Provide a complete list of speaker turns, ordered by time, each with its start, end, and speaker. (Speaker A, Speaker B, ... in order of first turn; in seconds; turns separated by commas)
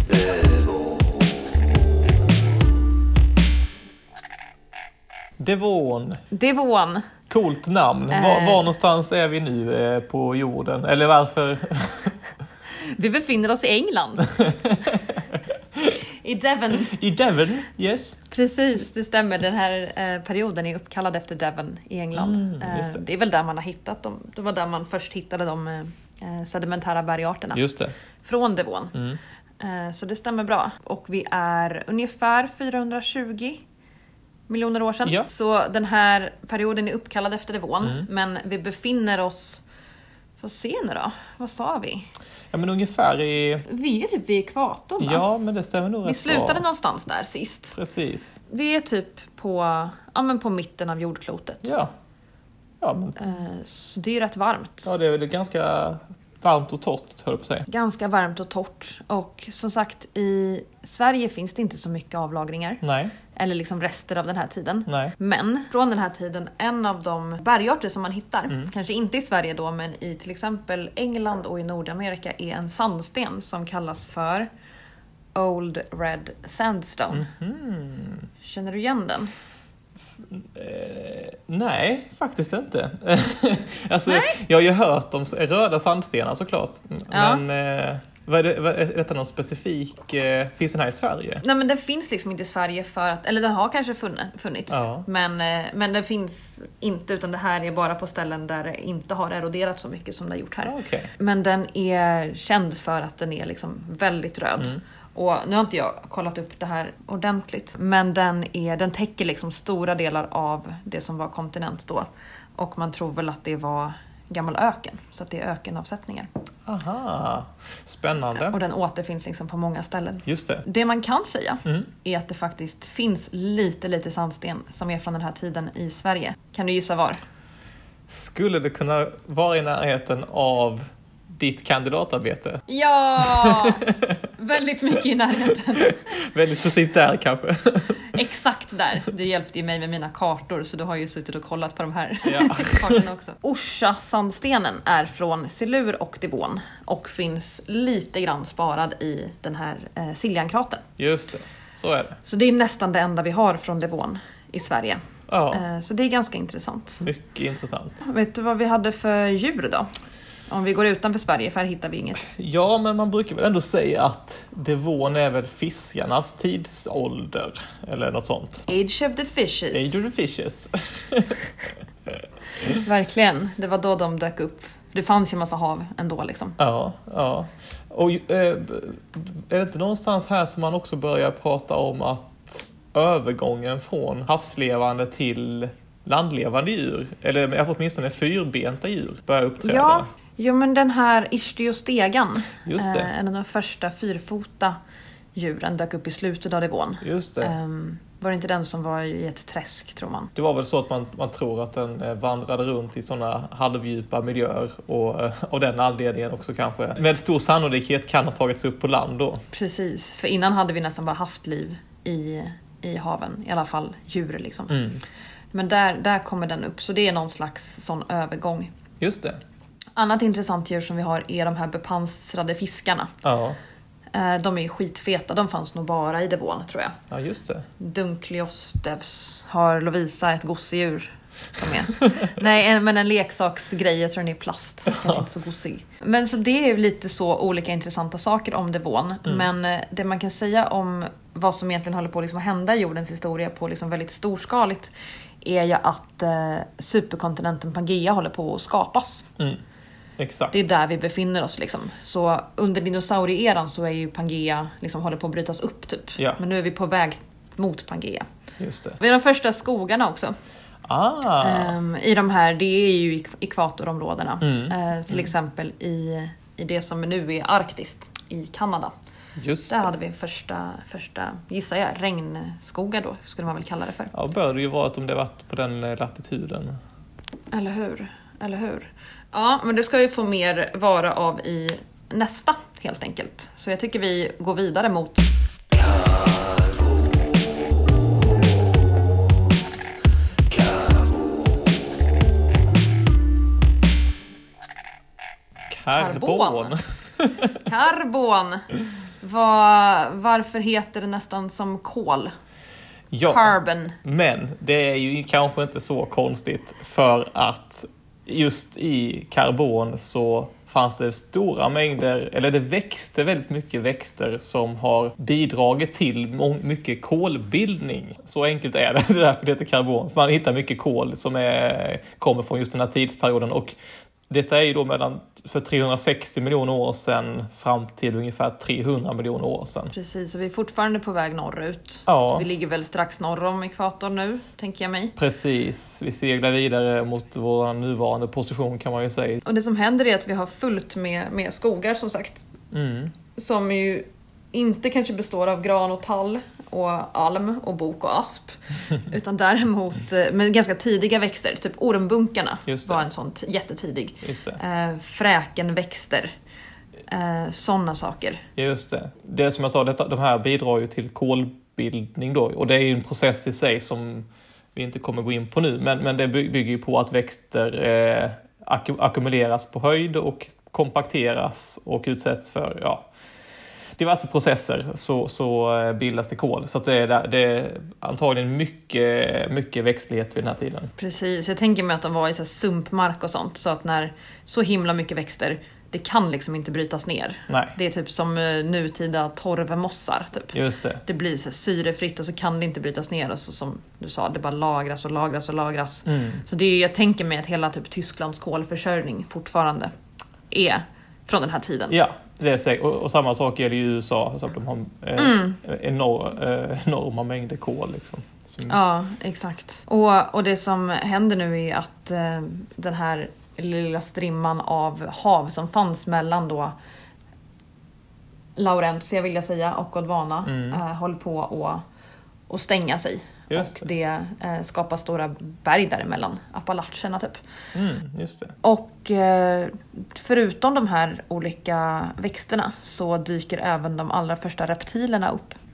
Speaker A: 5.4-6.2, Speaker B: 6.3-7.1, Speaker A: 7.3-12.2, Speaker B: 8.1-8.7, Speaker B: 12.7-14.4, Speaker A: 14.3-16.0, Speaker B: 16.2-17.0, Speaker A: 16.8-18.2, Speaker B: 18.3-27.6, Speaker A: 22.1-23.0, Speaker A: 27.5-27.9, Speaker B: 28.2-29.0, Speaker B: 29.6-33.6, Speaker B: 34.5-39.6, Speaker B: 40.4-42.1, Speaker A: 42.5-43.7, Speaker B: 43.7-45.3, Speaker A: 45.0-46.6, Speaker B: 46.0-47.8, Speaker A: 47.8-48.4, Speaker B: 48.5-51.8, Speaker A: 51.6-51.9, Speaker A: 52.8-53.2, Speaker B: 53.2-54.9, Speaker A: 54.9-57.7, Speaker B: 57.7-62.8, Speaker A: 62.8-63.1, Speaker B: 63.3-74.5, Speaker A: 64.9-65.1, Speaker B: 75.3-77.3, Speaker A: 77.1-78.3, Speaker B: 78.4-79.3, Speaker A: 80.2-91.4, Speaker B: 84.1-84.4, Speaker B: 87.1-87.4, Speaker B: 91.4-116.3, Speaker A: 94.7-95.1, Speaker A: 100.7-101.1, Speaker A: 116.7-118.6, Speaker B: 118.4-127.2, Speaker A: 120.3-120.6, Speaker A: 128.1-132.6, Speaker B: 132.7-136.0, Speaker A: 133.2-134.2, Speaker A: 135.8-138.2, Speaker B: 138.1-150.8, Speaker A: 142.3-143.0, Speaker A: 151.0-152.2, Speaker B: 152.2-157.1, Speaker A: 155.3-155.6, Speaker A: 157.0-158.0, Speaker B: 158.0-159.9, Speaker B: 160.5-162.2, Speaker A: 162.2-168.7, Speaker B: 168.7-170.0, Speaker A: 169.7-171.5, Speaker A: 172.1-172.8, Speaker B: 172.8-176.6, Speaker A: 176.6-190.1, Speaker B: 189.6-194.8, Speaker A: 192.7-193.1, Speaker B: 195.3-200.3, Speaker A: 197.0-197.5, Speaker A: 200.4-209.4, Speaker B: 209.5-214.8, Speaker A: 214.7-215.0, Speaker B: 215.5-218.7, Speaker A: 219.0-219.4, Speaker B: 220.0-223.1, Speaker A: 223.2-223.6, Speaker B: 224.1-227.0, Speaker A: 227.1-227.7, Speaker B: 227.8-249.3, Speaker A: 234.9-235.3, Speaker A: 250.2-250.6, Speaker B: 250.5-258.2, Speaker A: 258.6-259.0, Speaker B: 259.0-260.4, Speaker A: 260.9-261.8, Speaker B: 261.4-268.9, Speaker A: 264.4-265.2, Speaker A: 269.4-269.9, Speaker B: 269.7-274.1, Speaker A: 274.1-276.8, Speaker B: 277.5-285.3, Speaker A: 295.7-297.6, Speaker B: 295.9-296.8, Speaker B: 297.6-298.7, Speaker B: 299.2-302.3, Speaker A: 303.1-303.5, Speaker B: 303.3-304.0, Speaker A: 304.0-323.8, Speaker A: 324.3-329.9, Speaker B: 329.9-335.1, Speaker A: 332.1-332.4, Speaker A: 335.2-339.4, Speaker B: 339.4-342.4, Speaker A: 342.7-343.1, Speaker B: 343.4-356.3, Speaker A: 352.7-353.0, Speaker A: 354.2-354.6, Speaker B: 357.1-358.4, Speaker A: 358.6-373.1, Speaker A: 374.0-380.9, Speaker B: 381.0-399.9, Speaker A: 387.5-387.7, Speaker A: 390.5-391.0, Speaker A: 396.1-396.4, Speaker B: 400.5-402.0, Speaker A: 401.9-408.8, Speaker B: 405.2-405.6, Speaker B: 408.7-416.8, Speaker B: 418.6-421.8, Speaker A: 420.5-420.8, Speaker B: 422.5-427.4, Speaker A: 423.5-423.9, Speaker A: 427.7-428.6, Speaker B: 428.6-435.6